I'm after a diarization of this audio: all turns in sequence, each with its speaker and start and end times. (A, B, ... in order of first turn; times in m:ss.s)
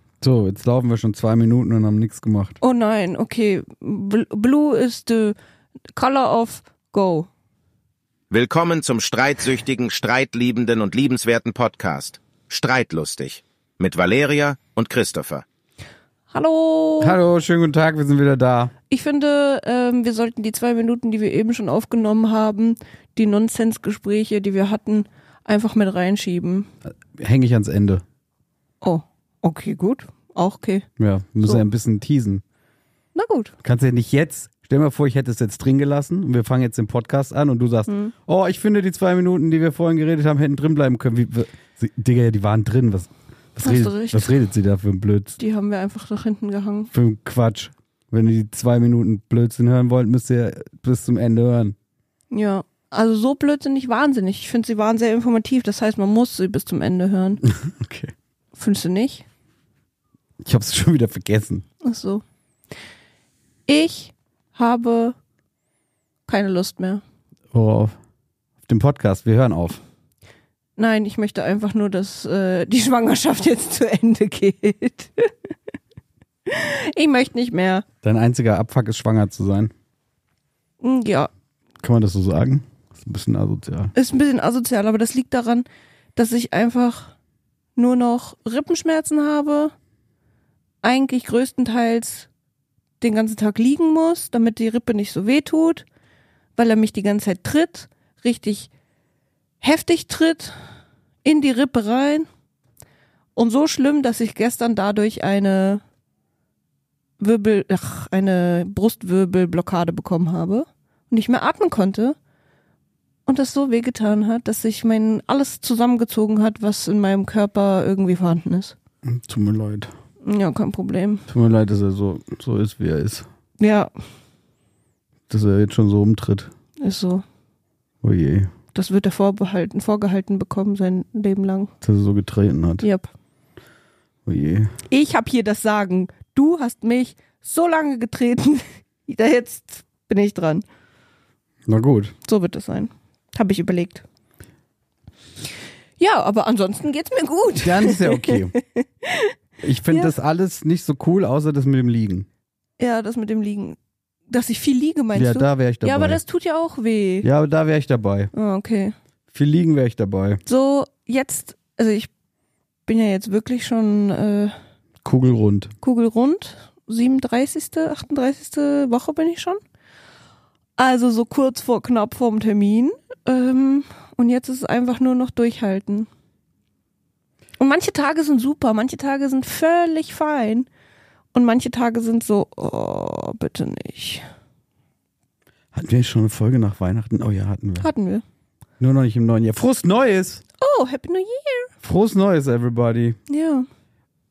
0:00.2-0:02.6 A
0:02.6-0:05.4 B
0:05.9-0:07.3 B
0:08.3-0:15.4 C
0:16.3-0:17.2 B
0:17.0-0:18.7 A
0:18.9-0:26.7 B
0:26.8-0:28.0 A
0:28.8-0:30.8 B
0:31.0-0:32.4 A
0:33.1-0:33.5 B
0:33.6-0:45.4 A
0:37.9-0:38.1 B
0:43.6-0:44.3 B
0:45.4-0:46.9 B
0:46.9-0:51.8 A
0:52.3-0:57.4 B
0:57.4-0:58.1 A
0:58.5-0:59.2 B
1:00.4-1:01.6 A
1:01.8-1:02.2 B
1:03.7-1:05.1 B
1:06.3-1:07.0 B
1:07.5-1:08.0 A
1:08.6-1:09.8 A
1:10.8-1:15.3 B
1:16.5-1:17.8 B
1:18.0-1:19.7 A
1:20.8-1:21.3 B
1:21.8-1:23.9 A
1:23.9-1:27.1 B
1:27.8-1:29.7 B
1:30.8-1:32.3 B
1:33.0-1:35.8 B
1:36.6-1:38.7 B
1:39.6-1:40.5 B
1:41.2-1:42.3 B
1:43.4-1:45.8 B
1:47.2-1:52.2 B
1:53.2-1:58.8 B
1:59.0-1:59.9 A
2:00.2-2:01.2 B
2:01.3-2:03.2 A
2:03.6-2:03.9 B
2:05.3-2:06.5 A
2:06.8-2:07.2 B
2:08.0-2:08.5 A
2:08.7-2:11.7 B
2:11.8-2:12.8 A
2:12.8-2:13.1 B
2:14.2-2:14.7 A
2:14.9-2:20.6 B
2:21.7-2:22.1 A
2:22.2-2:24.0 B
2:26.0-2:29.3 B
2:27.6-2:28.5 A
2:29.6-2:32.3 A
2:32.8-2:33.8 B
2:34.3-2:37.3 B
2:35.1-2:36.2 A
2:37.2-2:38.3 A
2:38.3-2:38.9 B
2:39.3-2:40.4 A
2:40.4-2:42.1 B
2:42.9-2:44.5 B
2:45.0-2:45.7 A
2:45.8-2:49.6 B
2:50.8-2:56.1 B
2:57.6-3:00.7 B
3:01.3-3:04.2 B
3:05.7-3:07.9 A
3:07.8-3:08.2 B
3:08.8-3:10.4 A
3:10.6-3:11.7 B
3:11.8-3:13.2 A
3:13.3-3:13.6 B